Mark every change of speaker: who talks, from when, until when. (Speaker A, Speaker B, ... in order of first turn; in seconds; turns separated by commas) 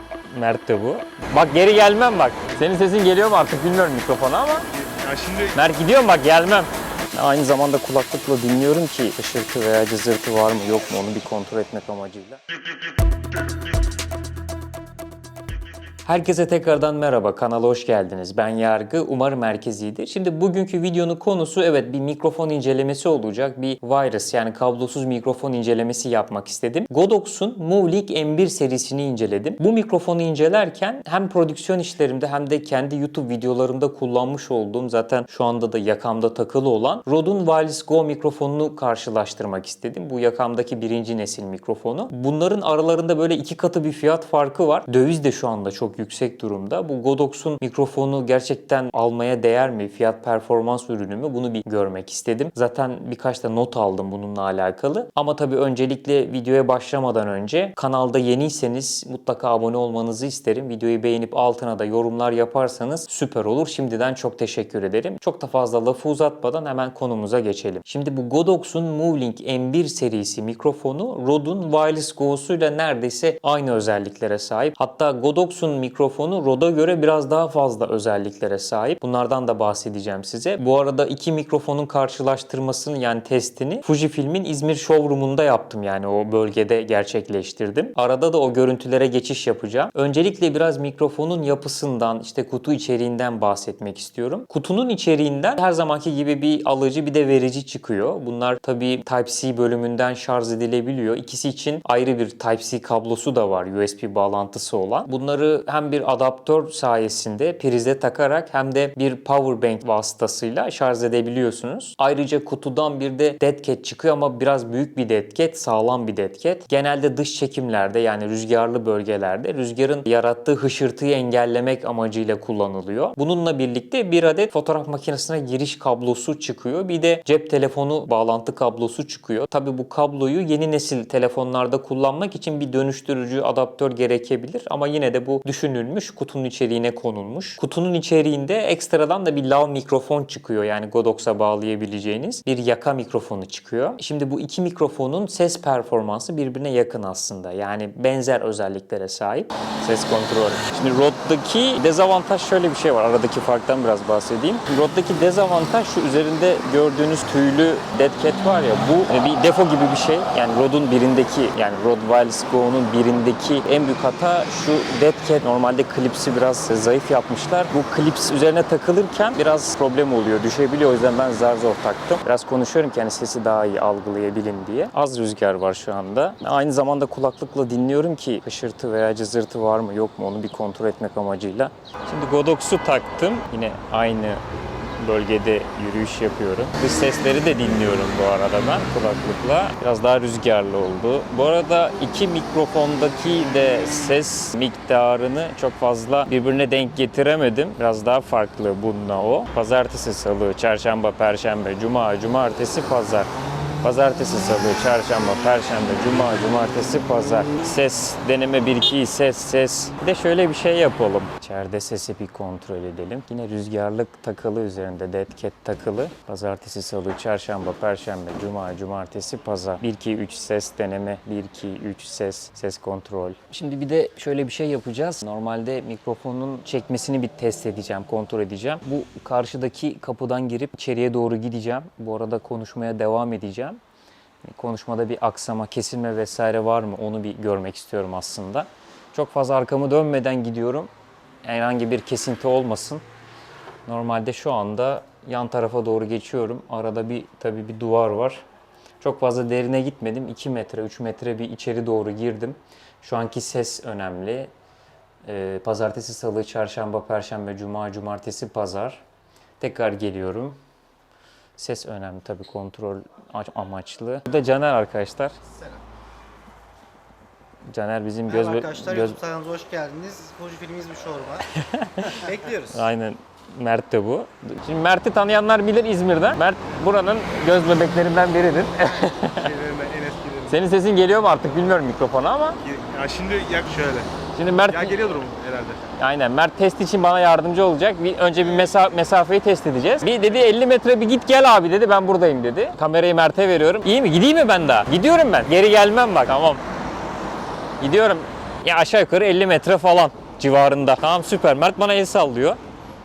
Speaker A: 0.3-4.7, Speaker B: 4.8-5.6, Speaker A: 5.5-12.4, Speaker A: 16.1-184.4, Speaker A: 185.0-233.8, Speaker A: 234.4-240.9, Speaker A: 241.4-243.0, Speaker A: 243.9-248.4, Speaker A: 249.0-254.5, Speaker A: 255.2-259.0, Speaker A: 259.6-260.6, Speaker A: 261.6-265.4, Speaker A: 267.7-269.2, Speaker C: 268.3-271.5, Speaker A: 271.5-279.6, Speaker C: 272.0-272.8, Speaker B: 279.3-280.6, Speaker A: 280.5-282.6, Speaker B: 282.6-284.1, Speaker A: 284.3-285.0, Speaker B: 284.6-285.9, Speaker A: 285.9-296.6, Speaker A: 297.8-302.6